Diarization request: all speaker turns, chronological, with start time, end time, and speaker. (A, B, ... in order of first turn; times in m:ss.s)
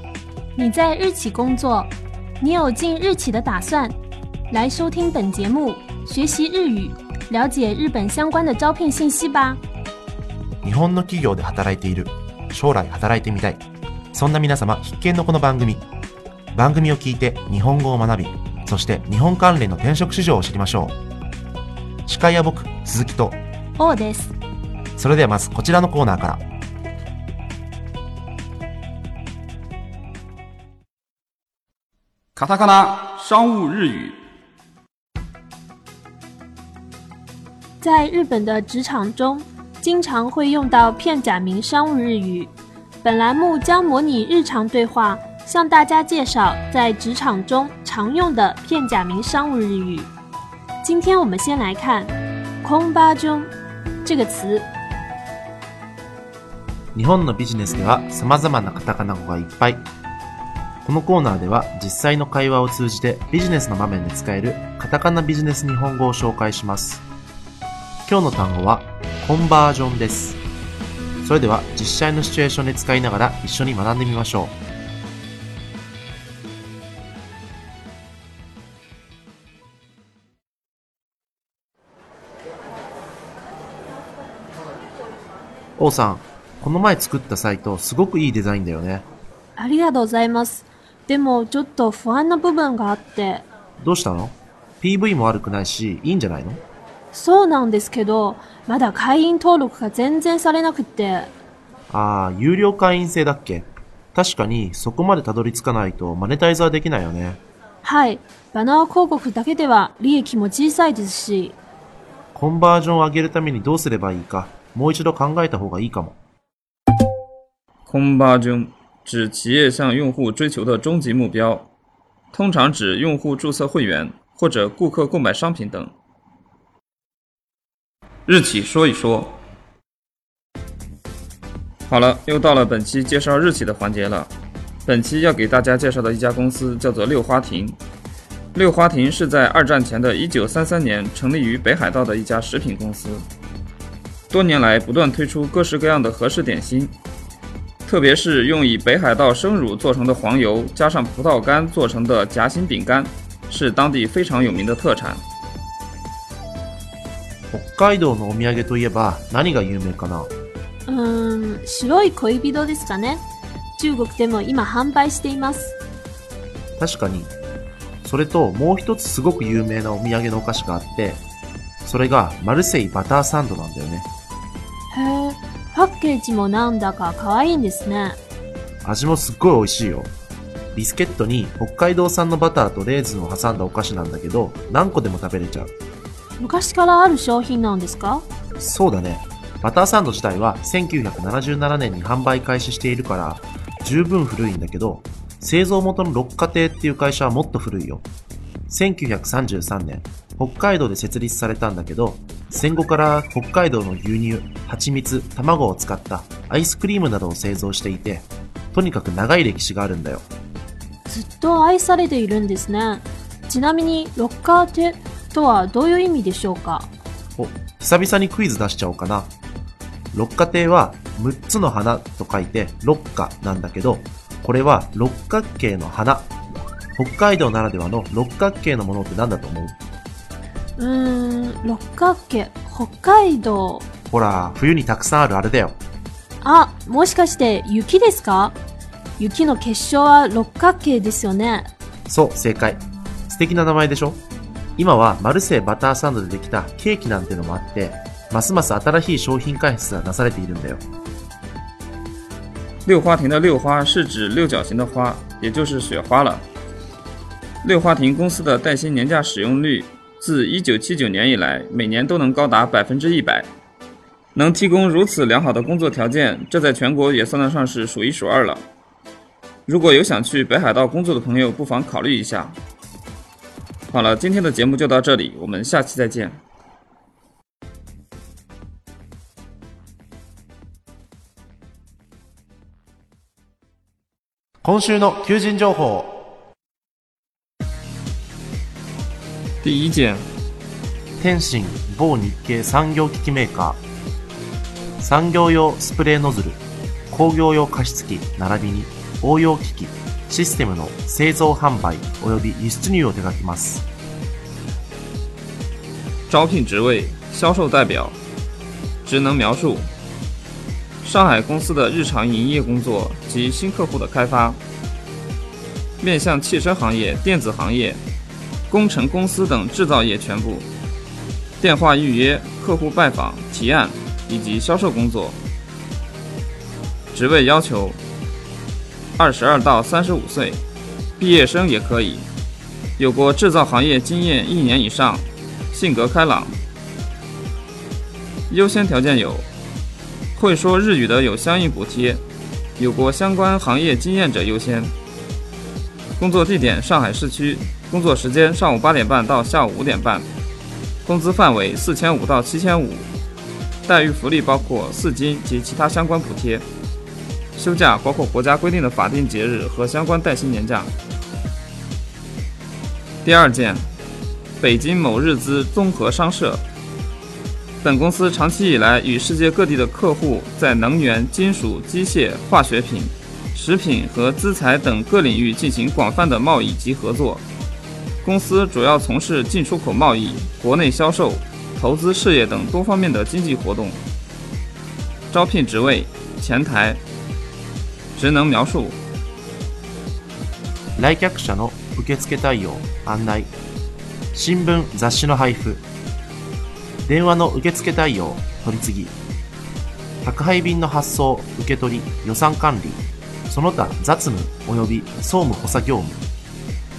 0:00.6-0:04.0 A
0:04.5-0:09.6 A
0:10.6-0:15.8 B
0:16.5-0:21.0 B
0:22.1-0:23.4 B
0:23.8-0:24.4 A
0:25.0-0:26.4 B
0:32.4-0:34.2 C
0:37.8-0:42.5 A
0:43.0-0:50.1 A
0:50.8-0:53.5 A
0:54.0-0:54.7 A
0:57.0-0:59.8 B
1:00.8-1:07.0 B
1:08.1-1:10.4 B
1:11.2-1:14.6 B
1:25.8-1:29.1 B
1:29.6-1:33.4 A
1:33.8-1:36.6 B
1:37.1-1:41.3 A
1:41.9-1:47.4 B
1:47.8-1:51.6 A
1:52.4-1:56.2 B
1:57.9-2:01.7 C
2:02.3-2:05.9 C
2:08.3-2:09.4 C
2:11.9-2:14.3 C
2:14.9-2:17.8 C
2:18.5-2:23.3 C
2:24.3-2:26.9 C
2:27.9-2:35.2 C
2:37.5-2:40.3 B
2:40.9-2:43.2 A
2:43.8-2:45.8 A
2:46.8-2:47.3 B
2:48.0-2:51.2 B
2:51.8-2:54.1 B
2:54.9-2:58.2 A
2:58.8-3:00.1 B
3:00.7-3:05.7 B
3:06.4-3:08.2 A
3:08.6-3:18.0 B
3:18.7-3:30.2 B
3:31.1-3:36.9 A
3:37.4-3:39.3 B
3:40.1-3:46.3 B
3:47.0-3:49.8 B
3:50.8-3:53.8 A
3:54.1-3:55.8 B
3:56.4-3:58.6 A
3:59.2-4:01.7 A
4:02.1-4:04.2 B
4:04.8-4:10.8 B
4:12.8-4:16.4 C
4:17.6-4:23.5 C
4:24.4-4:28.6 C
4:29.7-4:32.6 C
4:33.9-4:36.4 C
4:44.6-4:46.2 B
4:49.6-4:50.3 C
4:51.2-4:53.8 B
4:55.0-5:03.8 B
5:06.3-5:08.2 C
5:09.0-5:09.9 C
5:11.0-5:14.6 C
5:16.0-5:18.0 C
5:18.7-5:20.7 C
5:21.6-5:25.4 C
5:27.1-5:28.0 C
5:29.2-5:30.6 C
5:31.2-5:32.3 C
5:33.0-5:36.6 C
5:38.5-5:39.5 C
5:40.4-5:42.2 C
5:42.8-5:44.9 C
5:46.2-5:50.3 C
5:51.0-5:53.1 C
5:53.9-5:56.7 C
5:57.6-6:00.9 C
6:03.2-6:03.9 C
6:04.6-6:06.6 C
6:07.8-6:17.4 C
6:18.2-6:24.0 C
6:25.3-6:27.0 C
6:28.2-6:29.0 C
6:31.0-6:33.5 B
6:34.3-6:35.8 B
6:37.1-6:39.2 B
6:40.2-6:46.2 B